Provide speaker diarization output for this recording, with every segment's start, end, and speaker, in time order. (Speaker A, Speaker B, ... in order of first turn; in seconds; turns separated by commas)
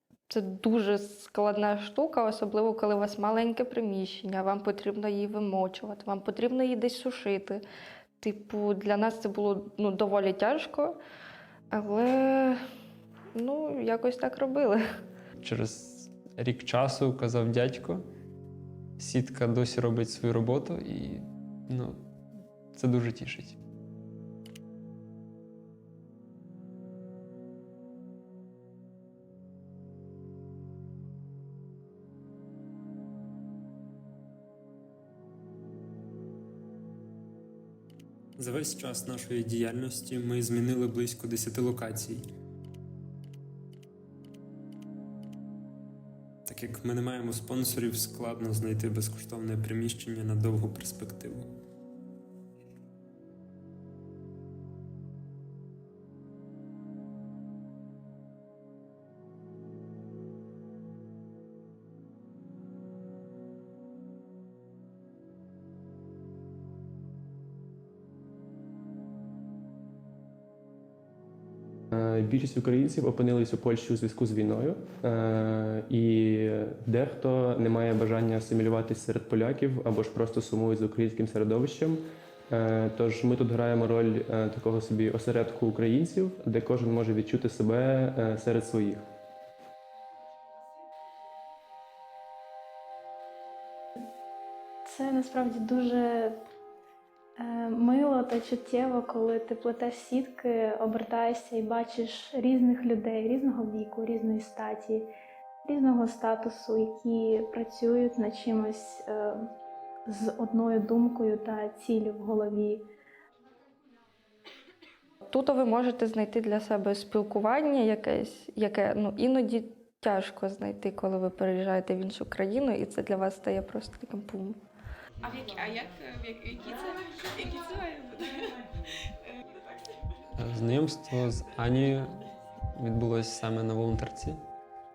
Speaker A: 0.3-7.6, Speaker A: 8.2-11.0, Speaker A: 11.7-12.6, Speaker A: 13.3-14.8, Speaker B: 15.4-18.0, Speaker B: 19.0-22.0, Speaker B: 22.7-23.6, Speaker B: 38.4-42.2, Speaker B: 46.5-51.5, Speaker C: 71.9-89.0, Speaker D: 94.8-96.3, Speaker D: 97.4-105.1, Speaker D: 105.6-109.5, Speaker D: 110.1-112.8, Speaker A: 115.3-124.6, Speaker E: 125.2-128.4, Speaker B: 130.4-134.4